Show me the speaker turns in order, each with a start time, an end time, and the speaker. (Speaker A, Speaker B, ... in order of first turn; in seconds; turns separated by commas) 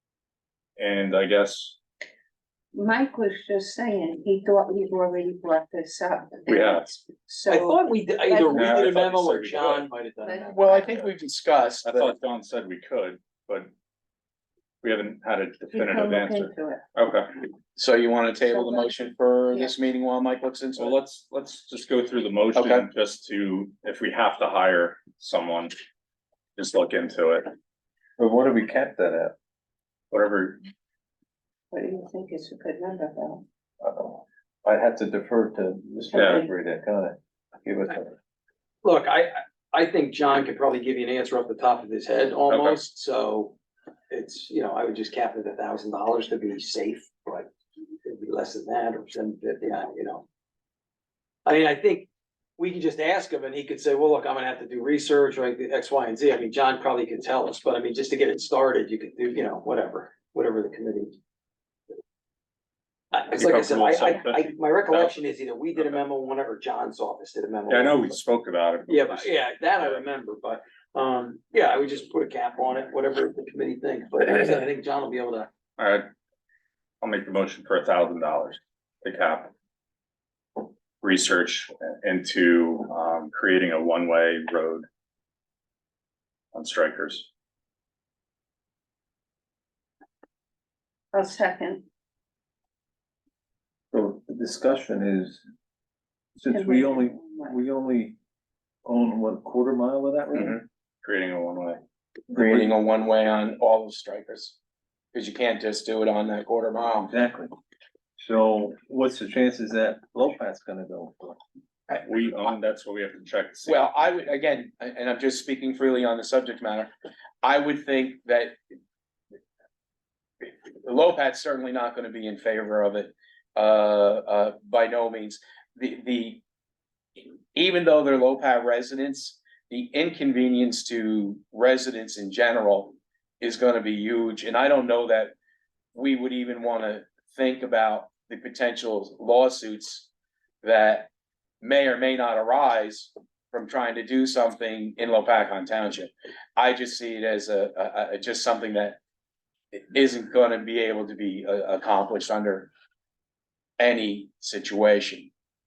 Speaker A: 0.8-1.8, Speaker B: 2.7-8.9, Speaker A: 6.5-6.9, Speaker C: 7.5-10.6, Speaker A: 8.5-9.9, Speaker B: 10.2-11.1, Speaker D: 10.5-12.1, Speaker A: 11.8-13.7, Speaker A: 14.8-17.3, Speaker B: 15.7-16.8, Speaker D: 17.8-20.9, Speaker B: 18.4-19.8, Speaker A: 20.8-25.7, Speaker D: 22.5-22.9, Speaker A: 26.6-27.5, Speaker E: 28.2-29.3, Speaker A: 30.1-30.6, Speaker B: 31.7-33.4, Speaker E: 33.8-38.2, Speaker B: 36.1-36.5, Speaker A: 36.2-36.4, Speaker C: 38.8-43.6, Speaker A: 42.5-42.8, Speaker C: 44.1-47.5, Speaker C: 48.0-50.2, Speaker C: 51.5-52.1, Speaker C: 52.6-61.2, Speaker C: 63.1-68.2, Speaker A: 63.4-65.1, Speaker A: 67.7-70.0, Speaker C: 68.9-75.5, Speaker A: 74.2-74.6, Speaker A: 75.8-76.1, Speaker A: 77.0-79.5, Speaker A: 81.0-84.9, Speaker A: 86.5-87.3, Speaker B: 91.1-91.8, Speaker E: 93.9-95.4, Speaker E: 96.4-98.2, Speaker B: 96.5-97.5, Speaker E: 98.8-100.6, Speaker A: 100.3-101.8, Speaker D: 102.3-104.6, Speaker E: 102.3-102.7, Speaker D: 105.1-107.1, Speaker E: 107.1-107.5, Speaker E: 108.2-111.4, Speaker A: 111.9-114.2, Speaker D: 113.7-116.9, Speaker D: 117.4-118.6, Speaker D: 120.4-126.4, Speaker D: 127.5-135.3, Speaker D: 135.9-140.1, Speaker D: 140.6-141.1, Speaker D: 141.6-149.0, Speaker D: 149.7-152.7, Speaker D: 153.8-155.3